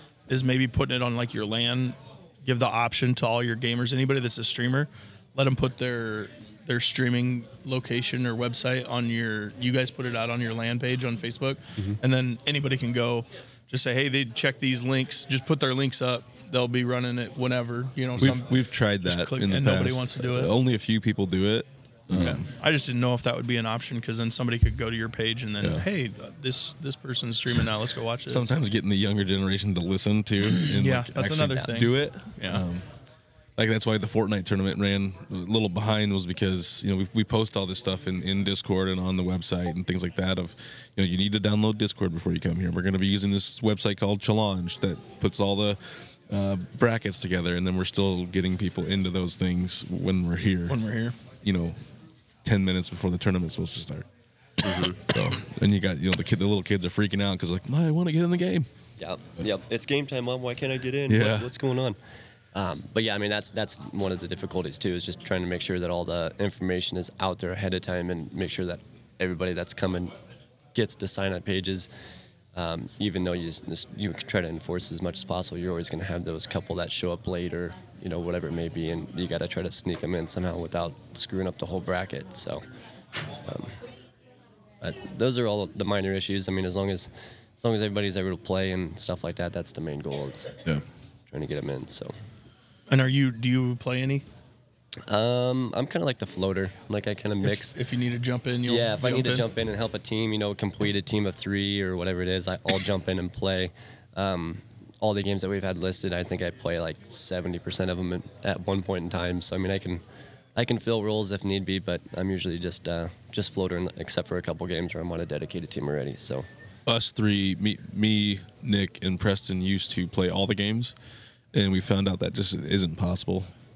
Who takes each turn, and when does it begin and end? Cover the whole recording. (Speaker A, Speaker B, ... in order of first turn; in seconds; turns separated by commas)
Speaker A: 0.3-20.5, Speaker B: 18.2-22.5, Speaker A: 22.1-28.4, Speaker B: 28.3-32.9, Speaker A: 30.6-32.6, Speaker B: 33.6-50.8, Speaker A: 50.7-51.2, Speaker B: 51.4-51.8, Speaker B: 52.4-54.1, Speaker C: 54.6-55.0, Speaker B: 54.9-58.7, Speaker C: 59.0-62.0, Speaker B: 61.1-61.5, Speaker C: 62.5-70.1, Speaker C: 70.7-71.9, Speaker C: 72.5-82.6, Speaker C: 83.5-83.7, Speaker C: 84.8-90.5, Speaker C: 91.3-92.1, Speaker A: 92.9-94.2, Speaker C: 95.1-97.7, Speaker A: 97.4-99.5, Speaker C: 98.7-110.0, Speaker C: 110.5-116.5, Speaker B: 116.9-121.0, Speaker B: 121.5-123.5